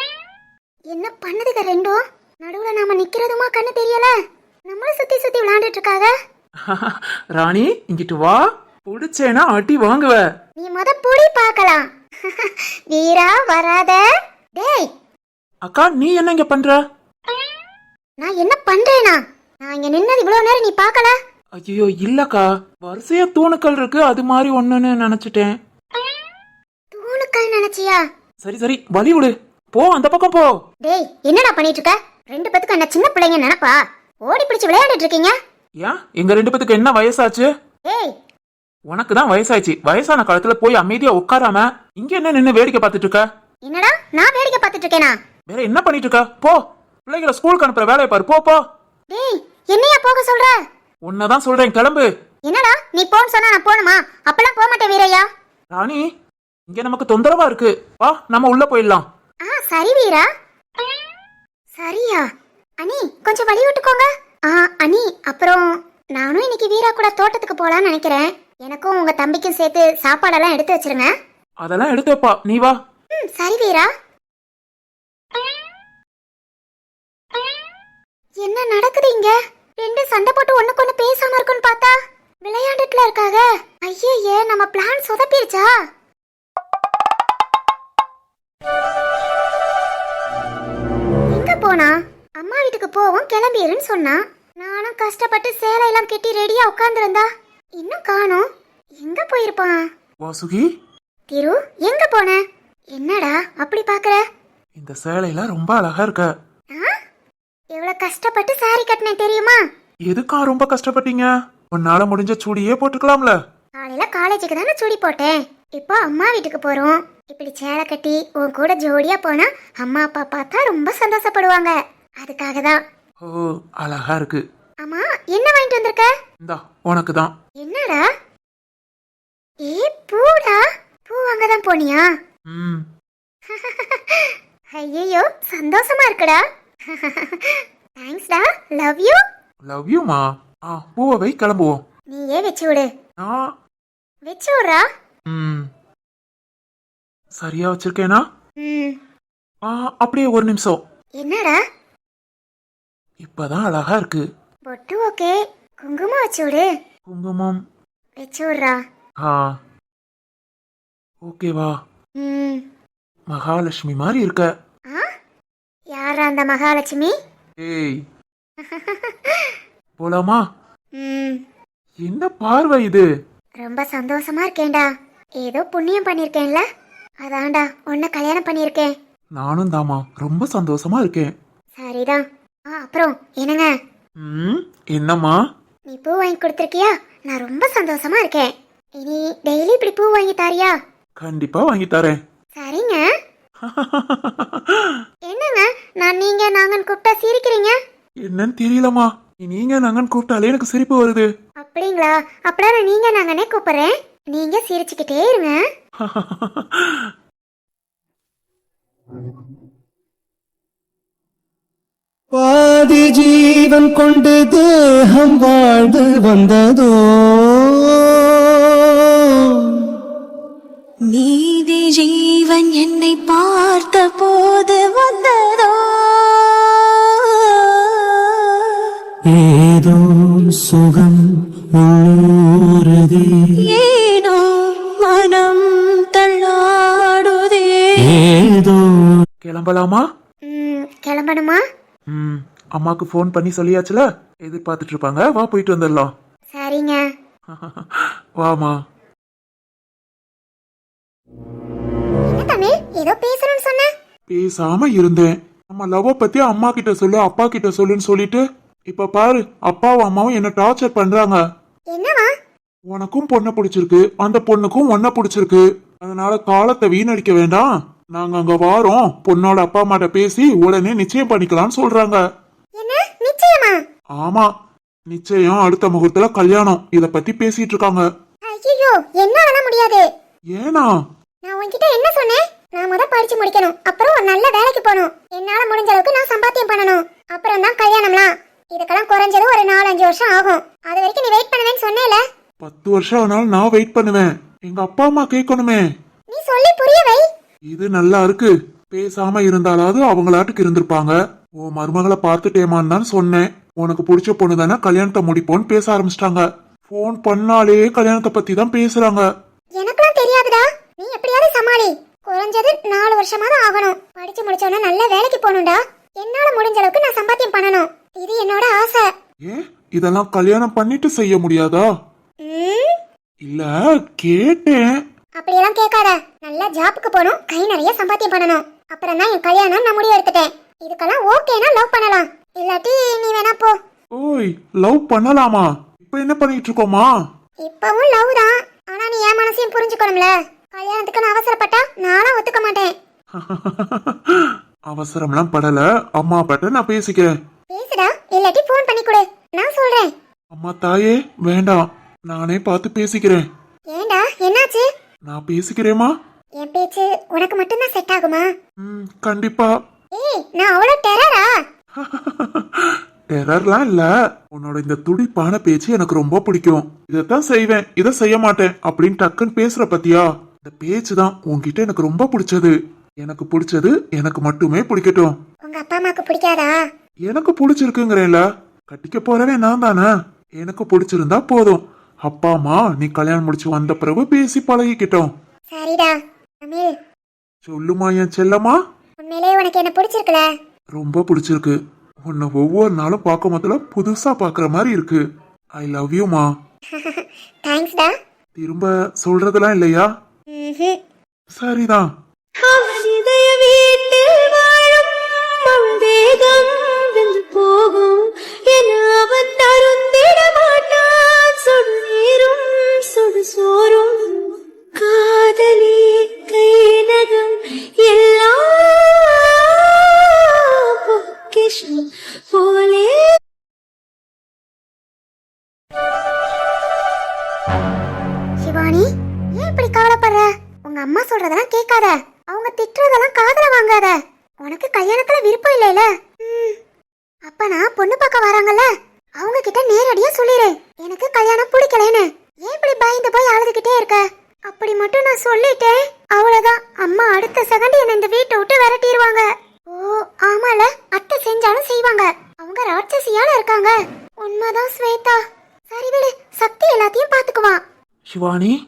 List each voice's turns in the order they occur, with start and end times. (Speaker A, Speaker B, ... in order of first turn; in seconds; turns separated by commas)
Speaker A: 0.9-4.1, Speaker A: 4.7-6.1, Speaker B: 6.7-10.2, Speaker A: 10.6-14.0, Speaker A: 14.6-14.9, Speaker B: 15.7-16.8, Speaker A: 18.2-21.1, Speaker B: 21.6-25.6, Speaker A: 26.9-28.0, Speaker B: 28.4-30.5, Speaker A: 30.8-35.3, Speaker B: 35.8-37.5, Speaker A: 37.9-38.1, Speaker B: 38.9-43.2, Speaker A: 43.6-45.2, Speaker B: 45.5-48.6, Speaker A: 49.1-50.5, Speaker B: 51.0-52.1, Speaker A: 52.5-55.3, Speaker B: 55.7-56.0, Speaker B: 56.7-59.0, Speaker A: 59.5-60.2, Speaker A: 61.8-62.3, Speaker A: 62.8-71.1, Speaker B: 71.6-72.8, Speaker A: 73.2-73.9, Speaker A: 78.4-85.7, Speaker A: 91.3-98.5, Speaker A: 99.0-99.8, Speaker B: 100.2-100.7, Speaker A: 101.3-102.4, Speaker A: 102.9-104.2, Speaker B: 104.8-106.3, Speaker A: 107.7-109.6, Speaker B: 110.1-113.4, Speaker A: 113.8-122.8, Speaker B: 123.2-124.4, Speaker A: 124.8-126.1, Speaker B: 126.4-127.3, Speaker A: 127.6-128.0, Speaker A: 129.7-132.1, Speaker B: 132.5-132.8, Speaker A: 133.5-139.2, Speaker B: 139.7-141.8, Speaker A: 142.1-142.9, Speaker A: 144.2-144.8, Speaker B: 145.3-145.7, Speaker B: 147.4-148.2, Speaker A: 148.6-148.9, Speaker B: 149.7-150.8, Speaker A: 151.2-151.6, Speaker B: 153.2-154.2, Speaker A: 154.7-156.7, Speaker B: 157.1-157.6, Speaker A: 158.2-158.8, Speaker B: 159.2-159.5, Speaker B: 161.3-161.7, Speaker A: 162.2-162.6, Speaker B: 163.3-164.5, Speaker A: 165.9-167.1, Speaker B: 167.6-168.0, Speaker A: 168.6-169.5, Speaker B: 170.0-170.4, Speaker A: 171.0-171.4, Speaker B: 172.1-173.1, Speaker A: 173.6-174.8, Speaker A: 175.4-176.6, Speaker A: 177.2-178.9, Speaker B: 179.4-181.3, Speaker A: 181.8-183.7, Speaker B: 184.2-185.4, Speaker A: 185.9-190.7, Speaker B: 191.2-192.2, Speaker A: 192.6-193.0, Speaker B: 193.7-195.0, Speaker A: 195.3-197.7, Speaker B: 198.2-201.3, Speaker A: 201.6-205.6, Speaker B: 206.0-207.1, Speaker C: 212.3-218.4, Speaker C: 219.5-219.9, Speaker D: 221.1-228.7, Speaker C: 229.6-233.7, Speaker D: 233.6-238.4, Speaker C: 238.4-238.8, Speaker B: 239.4-240.0, Speaker A: 240.4-241.6, Speaker B: 242.1-246.1, Speaker A: 246.5-247.0, Speaker B: 247.5-248.8, Speaker A: 252.3-253.9, Speaker B: 254.3-261.4, Speaker A: 261.9-262.3, Speaker B: 262.9-272.2, Speaker A: 272.8-273.8, Speaker B: 274.2-274.5, Speaker B: 275.1-278.0, Speaker A: 278.4-280.0, Speaker B: 280.5-280.9, Speaker A: 281.4-292.2, Speaker B: 292.6-295.8, Speaker A: 296.3-297.2, Speaker B: 297.7-309.3, Speaker A: 309.8-319.1, Speaker B: 319.5-321.9, Speaker A: 322.4-322.9, Speaker B: 323.5-324.9, Speaker A: 325.4-333.8, Speaker B: 334.1-337.1, Speaker A: 337.6-342.9, Speaker B: 343.4-347.3, Speaker A: 347.7-350.1, Speaker B: 350.5-353.4, Speaker A: 353.9-354.9, Speaker B: 355.3-356.1, Speaker A: 356.6-358.5, Speaker B: 358.8-359.7, Speaker A: 360.1-361.5, Speaker B: 362.0-375.3, Speaker A: 375.6-376.8, Speaker B: 377.3-385.3, Speaker A: 385.7-386.9, Speaker B: 387.6-388.8, Speaker A: 389.2-390.4, Speaker B: 390.9-395.2, Speaker B: 395.8-396.5, Speaker A: 396.9-398.1, Speaker B: 398.6-400.1, Speaker A: 400.5-401.0, Speaker B: 401.6-402.1, Speaker D: 402.6-423.2, Speaker A: 428.6-436.8, Speaker A: 437.5-438.9, Speaker A: 439.4-455.4, Speaker A: 455.9-457.8, Speaker B: 458.3-458.8